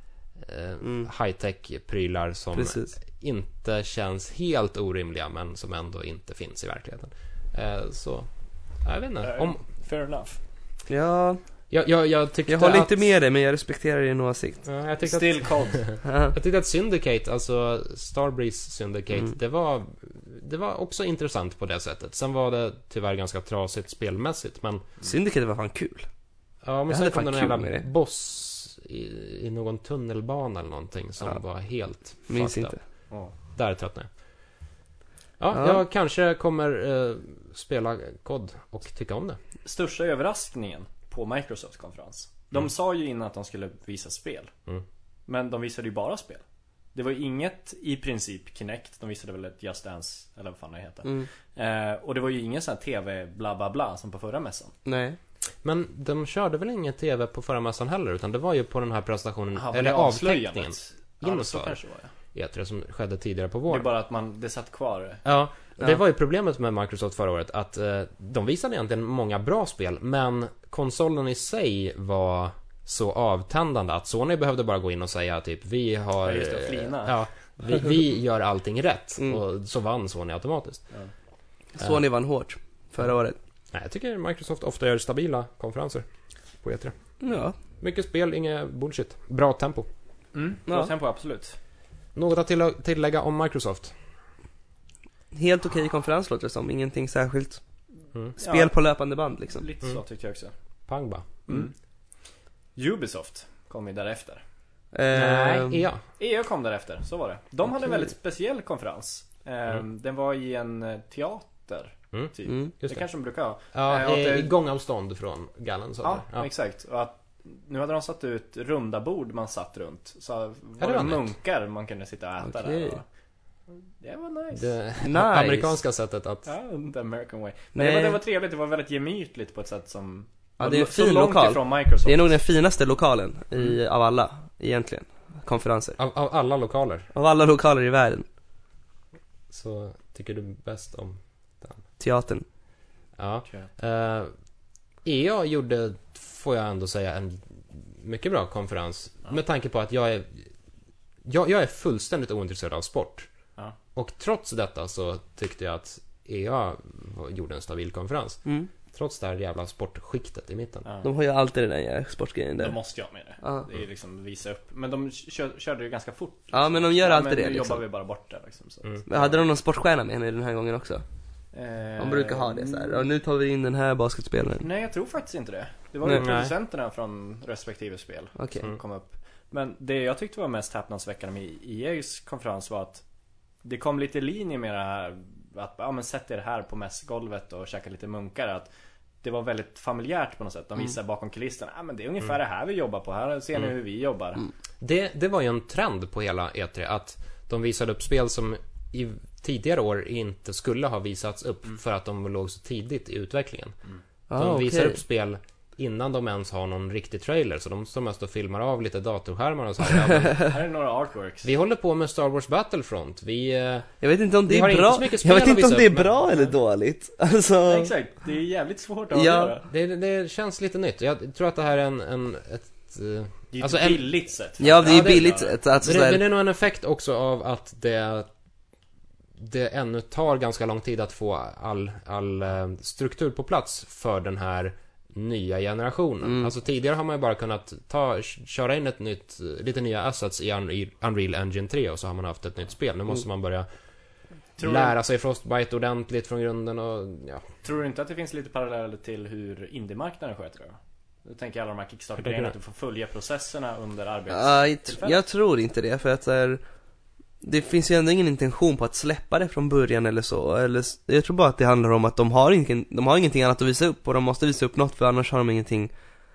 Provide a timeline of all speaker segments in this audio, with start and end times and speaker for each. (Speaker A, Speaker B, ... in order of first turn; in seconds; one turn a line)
Speaker A: 0.4-9.6
Speaker B: 0.8-1.1
Speaker B: 2.5-2.9
Speaker C: 9.2-10.4
Speaker B: 10.9-11.4
Speaker A: 11.7-13.0
Speaker B: 12.5-14.7
Speaker A: 14.7-24.9
Speaker C: 15.0-15.8
Speaker B: 16.1-16.4
Speaker B: 25.0-26.1
Speaker A: 26.6-32.8
Speaker B: 26.9-27.9
Speaker B: 32.3-32.8
Speaker A: 33.4-34.1
Speaker A: 35.4-39.4
Speaker B: 35.5-35.8
Speaker C: 39.6-44.5
Speaker C: 45.3-46.4
Speaker C: 46.9-54.7
Speaker B: 54.9-55.2
Speaker A: 55.6-61.8
Speaker C: 59.5-62.1
Speaker A: 62.3-63.9
Speaker C: 63.7-65.2
Speaker A: 65.2-80.9
Speaker C: 76.2-77.2
Speaker B: 81.8-83.4
Speaker A: 83.7-86.1
Speaker A: 86.6-87.0
Speaker B: 87.2-87.6
Speaker A: 87.8-89.9
Speaker C: 90.3-91.6
Speaker B: 90.7-90.9
Speaker A: 92.2-93.9
Speaker B: 95.3-97.6
Speaker C: 98.4-98.8
Speaker B: 98.4-99.7
Speaker C: 99.5-100.5
Speaker A: 100.9-101.5
Speaker C: 101.5-101.7
Speaker C: 102.8-104.4
Speaker B: 104.9-105.9
Speaker A: 105.1-106.0
Speaker C: 106.2-114.5
Speaker A: 112.1-113.0
Speaker A: 113.7-116.5
Speaker C: 116.0-123.0
Speaker A: 120.8-121.3
Speaker B: 122.4-123.0
Speaker C: 124.0-124.7
Speaker A: 124.5-126.5
Speaker B: 125.0-125.8
Speaker C: 126.5-132.4
Speaker B: 127.8-128.2
Speaker B: 130.6-136.0
Speaker A: 136.0-137.1
Speaker B: 137.1-138.3
Speaker A: 139.5-141.8
Speaker B: 142.0-142.4
Speaker A: 143.2-144.3
Speaker A: 145.0-150.5
Speaker A: 151.2-153.3
Speaker A: 153.9-160.9
Speaker C: 160.8-161.1
Speaker B: 161.0-162.8
Speaker C: 162.6-169.4
Speaker B: 163.4-163.7
Speaker B: 166.5-167.8
Speaker B: 169.1-171.0
Speaker C: 171.5-173.0
Speaker B: 172.0-174.7
Speaker C: 174.6-183.0
Speaker A: 176.1-176.5
Speaker B: 178.4-178.7
Speaker C: 183.6-188.7
Speaker C: 189.2-194.5
Speaker A: 194.8-203.8
Speaker B: 204.3-205.0
Speaker A: 204.3-210.6
Speaker C: 210.4-211.5
Speaker A: 211.4-213.9
Speaker B: 214.0-217.9
Speaker A: 214.4-216.4
Speaker C: 217.7-219.7
Speaker B: 219.1-219.6
Speaker A: 219.7-224.2
Speaker C: 223.5-225.6
Speaker B: 224.6-226.2
Speaker A: 224.8-228.3
Speaker A: 229.4-243.7
Speaker B: 236.2-236.5
Speaker C: 244.6-244.9
Speaker A: 244.6-247.4
Speaker C: 247.6-255.2
Speaker A: 252.2-252.5
Speaker B: 254.3-256.6
Speaker B: 257.4-265.9